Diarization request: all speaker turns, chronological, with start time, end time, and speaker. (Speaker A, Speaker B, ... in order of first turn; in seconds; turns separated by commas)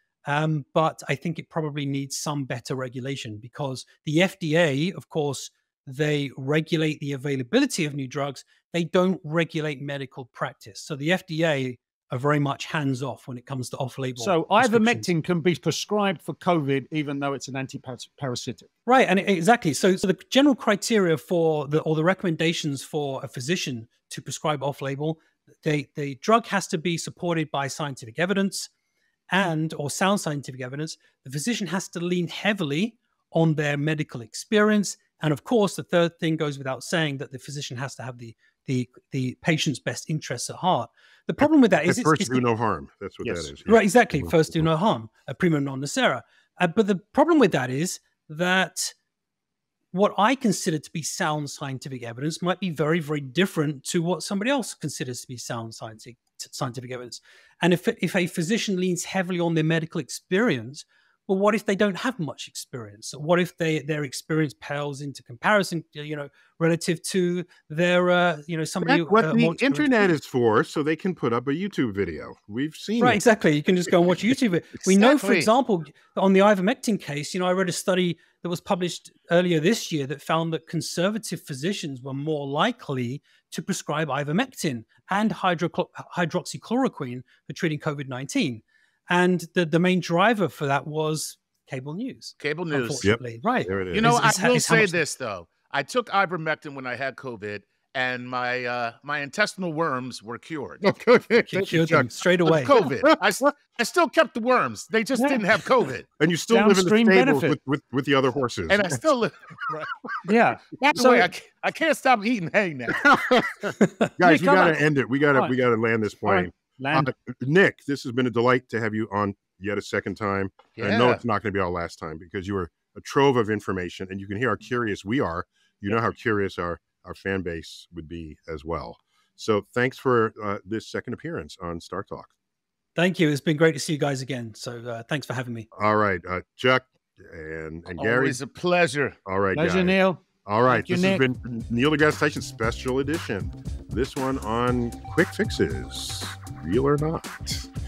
Speaker A: 0.2-15.1, Speaker B: 14.2-18.7, Speaker A: 18.9-28.7, Speaker A: 29.3-42.4, Speaker C: 41.4-44.7, Speaker B: 43.2-43.5, Speaker A: 43.6-48.9, Speaker A: 49.9-70.1, Speaker C: 68.8-73.2, Speaker A: 73.0-95.0, Speaker D: 74.8-75.5, Speaker D: 92.4-93.0, Speaker C: 93.0-94.2, Speaker D: 93.9-100.8, Speaker C: 100.8-102.1, Speaker A: 101.5-102.7, Speaker D: 102.5-106.0, Speaker C: 102.7-103.2, Speaker B: 105.2-105.4, Speaker C: 106.2-109.0, Speaker B: 106.5-107.6, Speaker D: 108.7-110.0, Speaker B: 110.2-111.3, Speaker D: 110.8-113.1, Speaker C: 112.9-132.3, Speaker A: 113.8-114.1, Speaker B: 114.2-114.8, Speaker B: 116.2-117.1, Speaker D: 120.8-121.2, Speaker A: 132.9-135.7, Speaker C: 135.7-138.4, Speaker D: 138.0-139.2, Speaker C: 139.2-147.7, Speaker B: 139.5-141.2